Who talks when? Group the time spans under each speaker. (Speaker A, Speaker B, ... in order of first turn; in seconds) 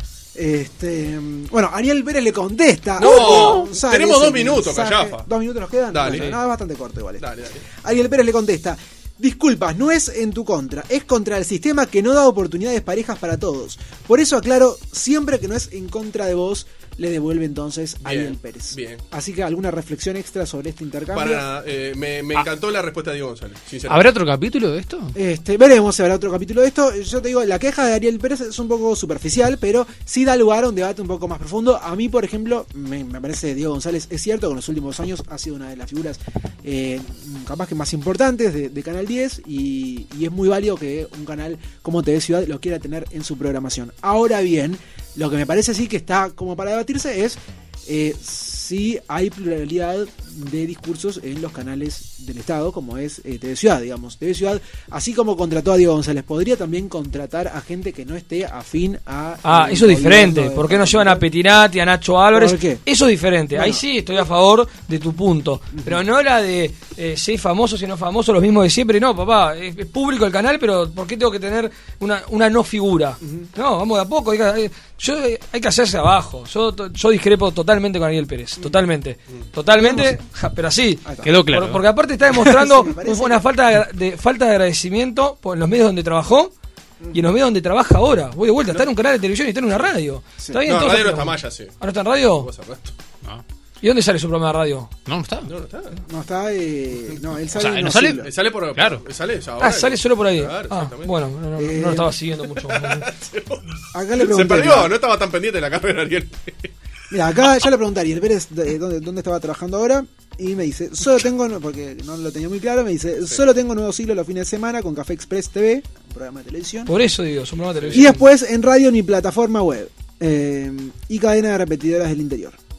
Speaker A: 0.3-21.5, 25.1-61.3, 62.3-62.8, 63.5-63.8, 65.7-66.0, 73.2-73.5, 79.7-80.2, 81.0-81.3, 82.3-83.5, 96.1-98.3, 101.6-102.2, 103.9-105.0, 107.1-116.9, 117.9-122.6
Speaker B: 3.0-3.6, 59.4-86.5, 87.1-92.5, 93.8-94.9, 99.6-103.0, 116.9-118.2
Speaker C: 3.0-5.2, 5.9-6.3, 7.2-7.7, 18.0-19.0, 21.1-24.0, 90.7-91.8, 92.3-92.9, 95.5-96.0, 98.2-101.2, 102.5-106.7, 117.8-118.0
Speaker D: 6.1-6.3, 23.9-25.2, 81.2-81.8, 95.1-95.5, 97.6-99.0